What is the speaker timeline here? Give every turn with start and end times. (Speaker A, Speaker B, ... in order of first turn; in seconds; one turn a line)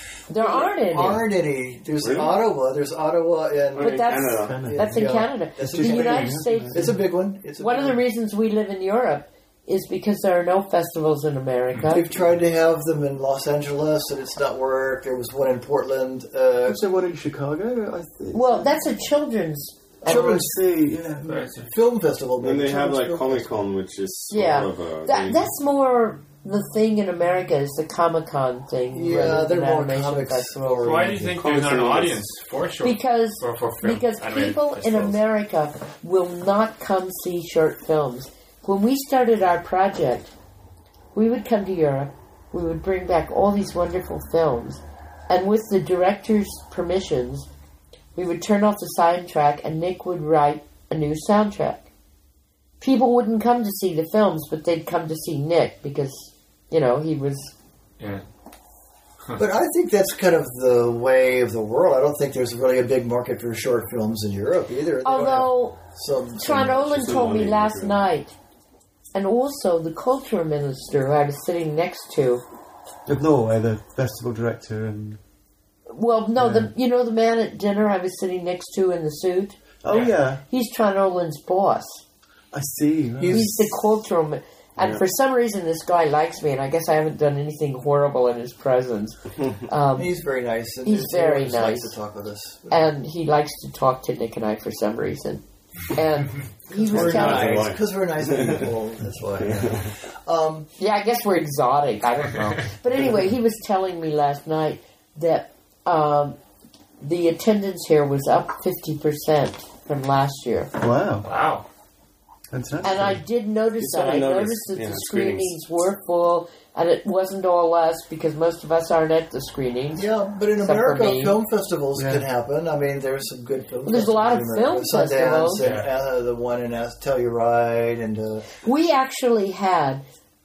Speaker A: 0.3-1.2
Speaker B: 0.4-8.0
Speaker C: 2.0-2.4
Speaker C: 3.7-4.7
Speaker A: 3.8-6.9
Speaker D: 4.5-7.0
Speaker A: 7.6-12.0
Speaker B: 11.9-16.8
Speaker D: 16.6-18.7
Speaker A: 18.3-19.9
Speaker D: 20.0-21.4
Speaker B: 20.0-20.5
Speaker E: 21.2-21.7
Speaker B: 21.3-23.5
Speaker C: 22.4-25.4
Speaker A: 24.3-31.1
Speaker B: 28.9-31.4
Speaker E: 30.8-35.2
Speaker C: 31.3-32.3
Speaker A: 32.8-40.3
Speaker A: 41.1-47.5
Speaker A: 48.1-51.8
Speaker A: 52.8-57.5
Speaker E: 58.0-58.2
Speaker B: 59.4-67.3
Speaker A: 65.0-65.8
Speaker A: 66.4-68.3
Speaker C: 66.9-68.0
Speaker A: 69.1-72.4
Speaker D: 73.0-75.2
Speaker A: 75.9-79.6
Speaker D: 76.4-76.7
Speaker D: 79.8-80.4
Speaker E: 79.9-80.2
Speaker A: 80.5-82.0
Speaker D: 82.5-83.4
Speaker B: 83.2-83.7
Speaker A: 83.3-90.1
Speaker C: 84.8-85.0
Speaker B: 90.0-92.9
Speaker A: 90.8-91.9
Speaker A: 92.7-97.6
Speaker B: 96.7-100.7
Speaker C: 96.9-98.7
Speaker C: 99.4-99.8
Speaker A: 100.8-106.3
Speaker A: 107.0-110.7
Speaker D: 110.8-111.2
Speaker E: 111.2-111.6
Speaker D: 112.5-113.2
Speaker A: 112.8-120.1
Speaker C: 113.8-115.5
Speaker B: 120.0-128.5
Speaker A: 120.6-121.3
Speaker D: 121.9-122.2
Speaker A: 123.8-125.6
Speaker E: 125.6-125.9
Speaker A: 128.6-130.0